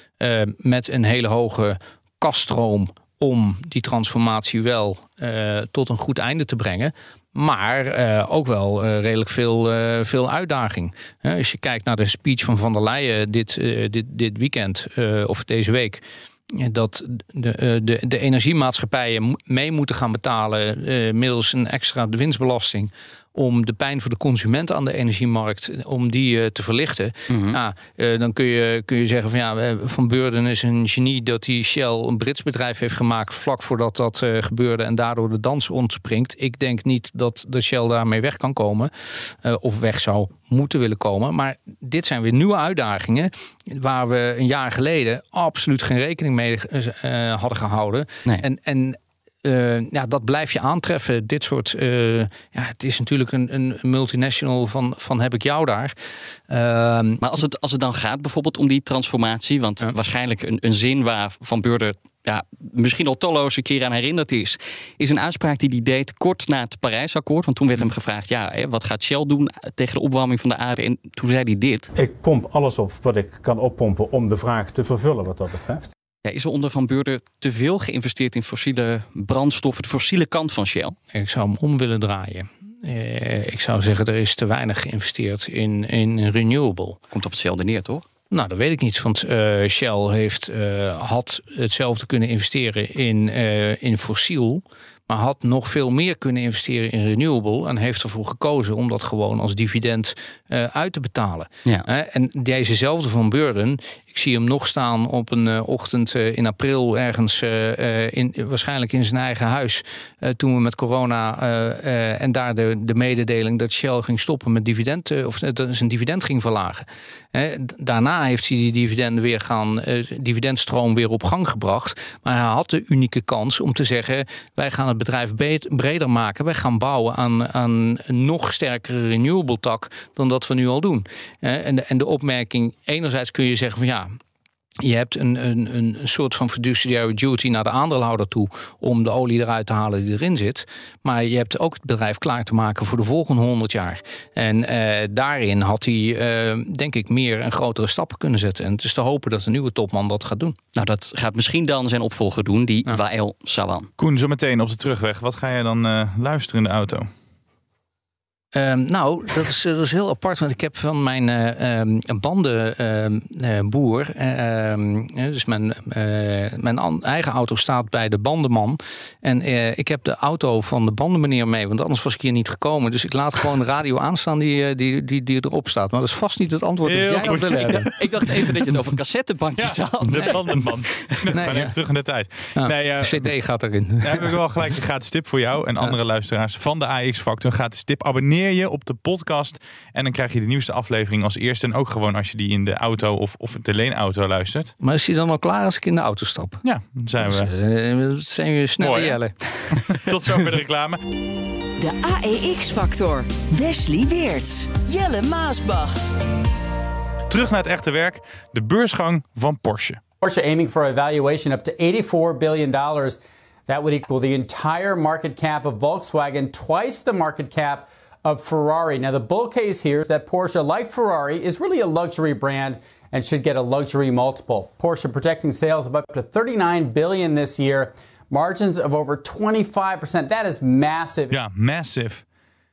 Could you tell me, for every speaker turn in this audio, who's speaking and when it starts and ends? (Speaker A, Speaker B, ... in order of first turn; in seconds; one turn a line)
Speaker A: 0.2-56.0
Speaker B: 27.3-27.6
Speaker A: 56.5-57.2
Speaker B: 57.2-71.9
Speaker C: 72.0-75.9
Speaker B: 76.2-81.0
Speaker A: 81.1-87.0
Speaker B: 87.1-88.0
Speaker A: 88.3-134.2
Speaker A: 134.8-150.6
Speaker B: 150.8-153.9
Speaker D: 154.0-157.1
Speaker A: 158.5-177.9
Speaker D: 176.8-178.0
Speaker B: 177.2-181.1
Speaker D: 179.6-183.3
Speaker A: 181.3-181.7
Speaker A: 182.6-184.3
Speaker D: 184.0-194.7
Speaker A: 194.8-196.6
Speaker D: 196.6-197.5
Speaker A: 197.2-199.3
Speaker D: 198.8-199.2
Speaker D: 199.7-201.0
Speaker E: 201.8-206.0
Speaker D: 207.3-210.0
Speaker F: 210.2-213.2
Speaker F: 213.7-231.4
Speaker D: 231.3-232.2